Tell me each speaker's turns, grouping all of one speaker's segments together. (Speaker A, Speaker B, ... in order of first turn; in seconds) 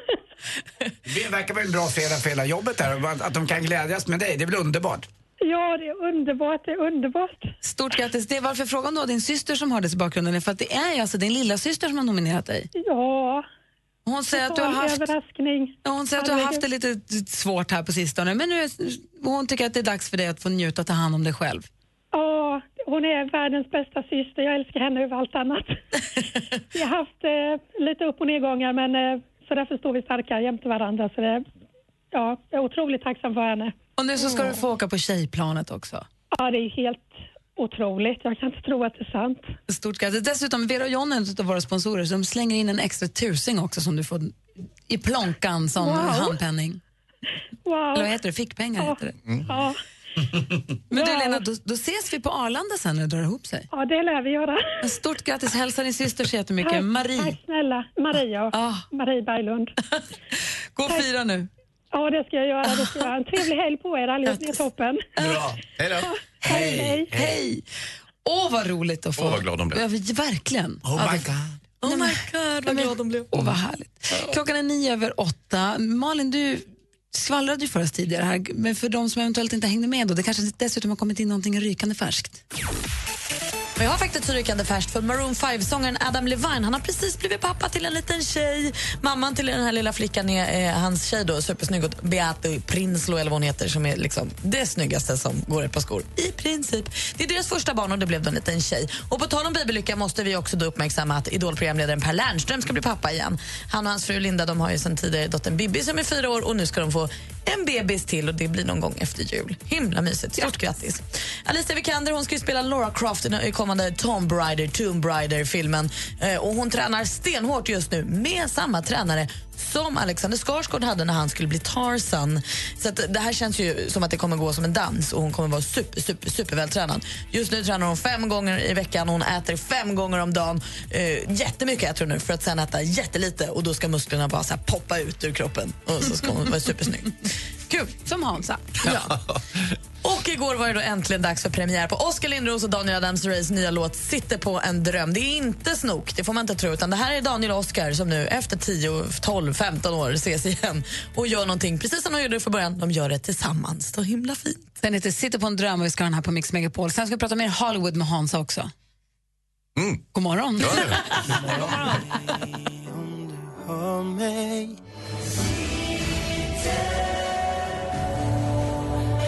Speaker A: 1.1-5.0, 65.2-65.5, 66.5-67.3, 70.8-71.5
Speaker B: 5.4-7.5, 12.7-13.4, 14.3-16.6, 22.1-25.7, 26.7-31.4, 32.1-33.7, 36.3-39.5, 45.8-46.4, 47.6-48.1, 48.8-49.8, 50.9-51.4, 53.7-54.6, 56.6-59.7, 61.9-65.2, 66.0-67.1
Speaker C: 7.6-12.7, 14.1-15.1, 15.8-21.7, 34.0-36.0, 39.7-44.4, 44.9-46.8, 47.9-49.1, 50.9-53.7, 54.8-57.3, 58.5-58.8, 60.7-61.5, 66.4-67.6, 68.2-71.3, 71.8-82.4, 137.7-139.0, 154.8-158.7, 160.1-161.0
Speaker D: 65.8-66.1, 69.2-69.8, 138.8-139.2, 159.8-160.1, 160.6-161.1
Speaker E: 71.8-73.3, 83.8-137.2, 140.0-154.7
Speaker F: 161.2-164.8